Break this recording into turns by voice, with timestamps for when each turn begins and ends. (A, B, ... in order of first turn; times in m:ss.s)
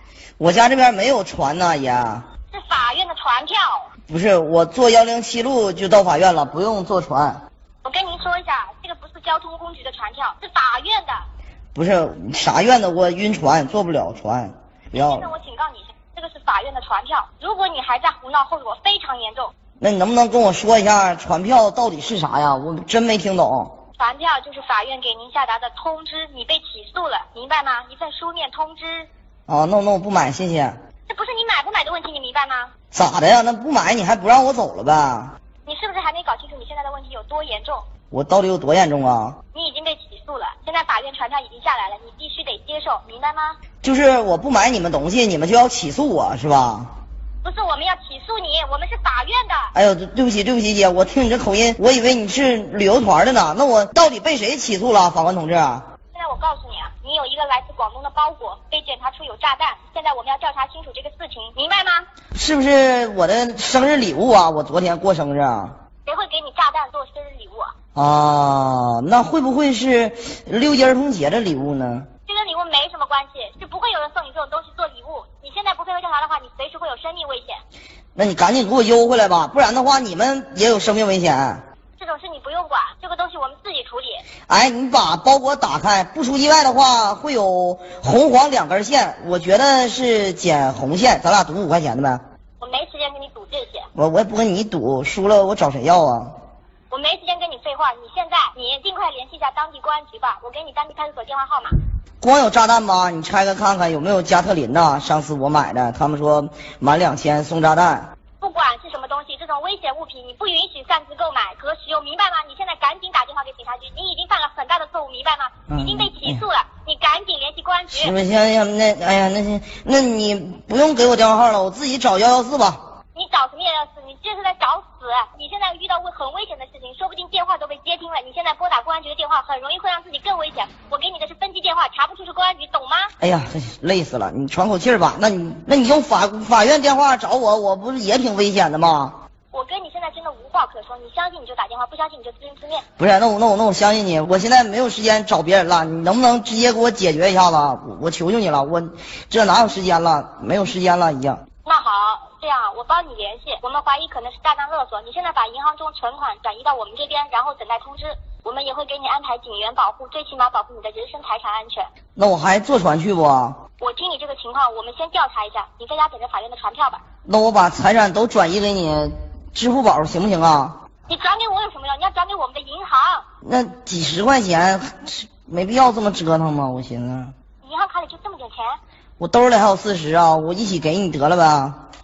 0:00.4-0:02.2 A
0:02.5-0:03.9 B
0:04.1-0:07.4 A
0:07.8-0:11.2 B
0:11.7-0:15.3 A
0:14.9-0:19.5 B
0:19.8-0:23.7 A
0:24.0-0:29.1 B
0:29.5-0:30.8 A
0:31.1-0:32.7 B
0:32.9-0:35.3 A
0:35.6-0:37.8 B
0:38.1-0:39.4 A
0:39.5-0:43.6 B
0:43.8-0:46.9 A
0:47.4-0:49.7 B
0:49.7-0:55.8 A
0:56.1-1:02.0 B
1:02.3-1:05.7 A
1:06.0-1:07.7 B
1:07.9-1:12.1 A
1:12.3-1:17.6 B
1:18.2-1:21.6 A
1:22.0-1:24.2 B
1:24.5-1:32.2 A
1:32.6-1:33.9 B
1:33.9-1:36.3 A
1:36.9-1:41.8 B
1:42.2-1:48.1 A
1:48.4-1:58.1 B
1:55.7-1:56.4 A
1:57.9-2:02.8 A
2:03.1-2:13.1 B
2:13.2-2:19.2 A
2:19.5-2:22.8 B
2:23.0-2:31.4 A
2:31.6-2:41.9 B
2:42.2-2:43.6 A
2:43.8-2:47.0 B
2:47.2-2:50.8 A
2:51.1-2:53.2 B
2:53.4-2:57.3 A
2:57.6-2:58.8 B
2:59.2-3:01.8 A